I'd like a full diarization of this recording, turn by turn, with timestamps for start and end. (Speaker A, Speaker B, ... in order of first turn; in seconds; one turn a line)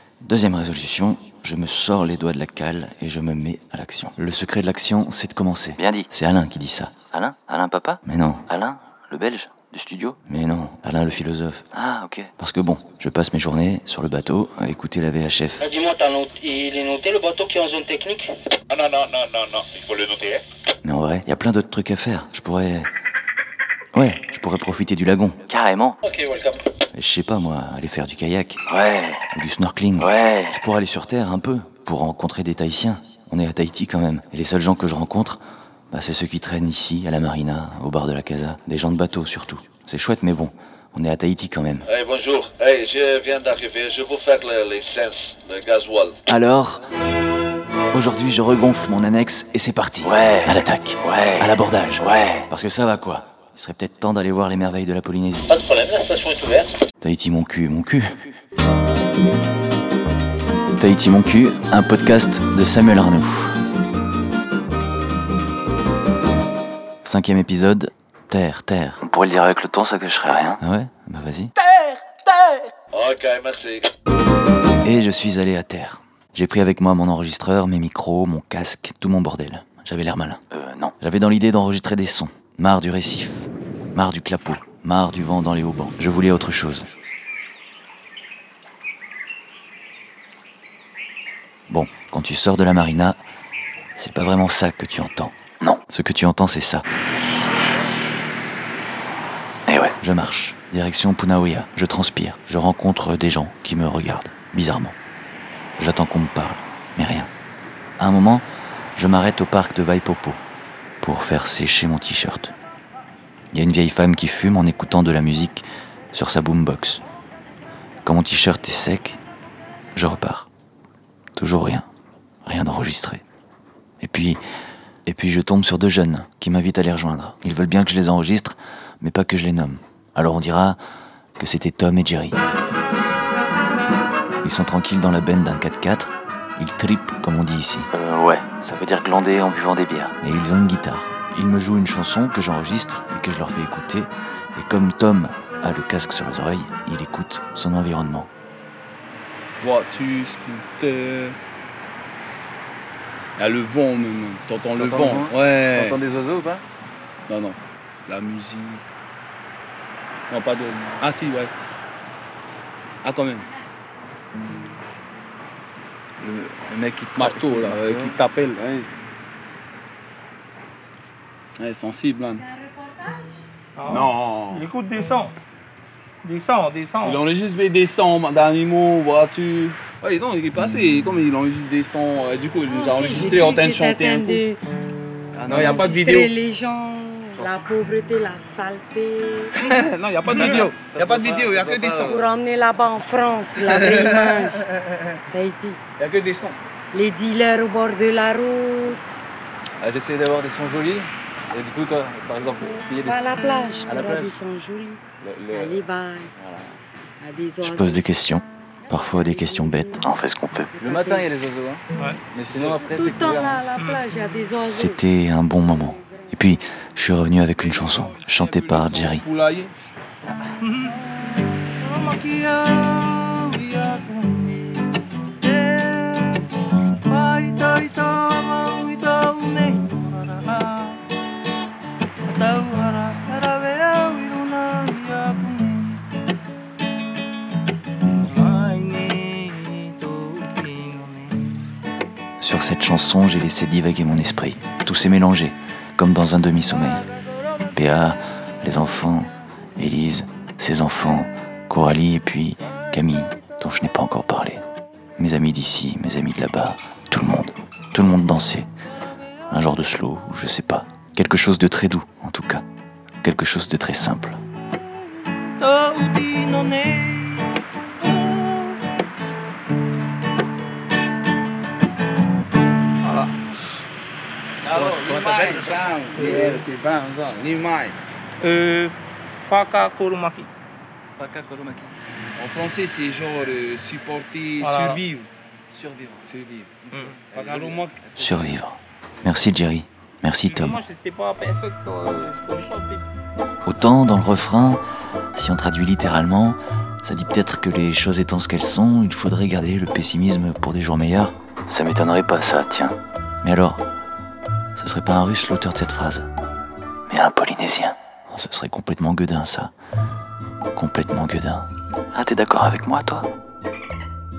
Speaker A: 0.2-15.7
Speaker B: 7.1-7.9
Speaker B: 9.7-10.1
Speaker B: 11.8-12.2
Speaker C: 15.6-18.4
Speaker D: 18.7-20.4
Speaker A: 20.8-22.9
Speaker A: 23.9-26.0
Speaker C: 26.0-26.6
Speaker A: 26.9-28.6
Speaker B: 28.7-29.2
Speaker A: 29.2-35.4
Speaker B: 30.0-30.5
Speaker A: 35.9-41.9
Speaker D: 41.9-46.2
Speaker A: 46.3-46.8
Speaker A: 47.9-55.5
Speaker B: 50.0-50.5
Speaker B: 51.0-51.5
Speaker B: 52.0-52.4
Speaker C: 55.5-56.8
Speaker A: 57.0-58.2
Speaker A: 60.8-63.6
Speaker A: 67.0-71.5
Speaker B: 69.3-69.9
Speaker D: 72.9-73.9
Speaker A: 74.8-86.9
Speaker B: 80.5-80.8
Speaker A: 91.7-93.2
Speaker A: 94.0-96.8
Speaker A: 99.7-105.0
Speaker A: 105.8-107.3
Speaker A: 108.0-108.4
Speaker A: 109.0-110.4
Speaker A: 111.0-112.5
Speaker A: 113.5-117.0
Speaker A: 118.0-119.2
Speaker A: 119.9-120.5
Speaker A: 121.3-121.9
Speaker A: 122.4-123.2
Speaker A: 124.0-124.4
Speaker A: 125.0-130.8
Speaker A: 131.4-132.4
Speaker A: 134.4-139.2
Speaker B: 137.9-140.1
Speaker A: 140.0-148.3
Speaker E: 149.6-151.4
Speaker E: 153.4-156.0
Speaker B: 154.8-156.6
Speaker E: 157.3-158.8
Speaker E: 160.3-161.5
Speaker E: 163.0-163.5
Speaker B: 166.2-168.2
Speaker E: 167.1-168.9
Speaker E: 171.6-172.5
Speaker F: 172.5-173.4
Speaker G: 173.8-175.3
Speaker E: 173.9-174.7
Speaker G: 176.2-177.2
Speaker E: 177.0-184.4
Speaker F: 182.7-184.6
Speaker B: 185.4-185.8
Speaker E: 185.4-186.4
Speaker F: 185.5-189.6
Speaker E: 189.5-192.3
Speaker B: 190.4-192.2
Speaker F: 192.1-194.7
Speaker E: 193.6-195.2
Speaker F: 195.3-195.8
Speaker E: 196.0-196.6
Speaker F: 196.9-199.1
Speaker B: 199.8-203.3
Speaker F: 203.0-206.3
Speaker B: 203.8-204.3
Speaker B: 205.2-205.8
Speaker B: 206.4-206.7
Speaker F: 207.2-208.1
Speaker A: 207.6-210.7
Speaker F: 210.8-211.3
Speaker B: 210.8-213.6
Speaker G: 211.9-212.4
Speaker F: 212.8-215.0
Speaker G: 213.7-214.0
Speaker A: 214.7-219.2
Speaker E: 217.5-219.8
Speaker G: 220.6-221.0
Speaker G: 221.8-224.7
Speaker E: 223.6-224.1
Speaker G: 225.4-231.0
Speaker G: 232.2-236.0
Speaker G: 238.1-241.5
Speaker A: 242.4-247.0
Speaker A: 247.7-254.6
Speaker A: 255.2-258.7
Speaker A: 259.5-262.6
Speaker A: 263.2-264.4
Speaker E: 265.6-267.4
Speaker G: 273.0-273.3
Speaker E: 274.7-278.0
Speaker B: 274.9-275.2
Speaker G: 275.2-276.5
Speaker G: 278.4-280.5
Speaker B: 281.2-282.0
Speaker E: 282.4-285.3
Speaker G: 284.6-285.0
Speaker B: 285.7-286.3
Speaker E: 286.3-288.0
Speaker G: 286.9-287.2
Speaker B: 287.1-288.5
Speaker A: 288.1-290.8
Speaker G: 290.4-293.1
Speaker A: 293.6-294.8
Speaker A: 295.3-303.8
Speaker A: 304.8-306.3
Speaker A: 307.1-309.7
Speaker A: 310.7-313.3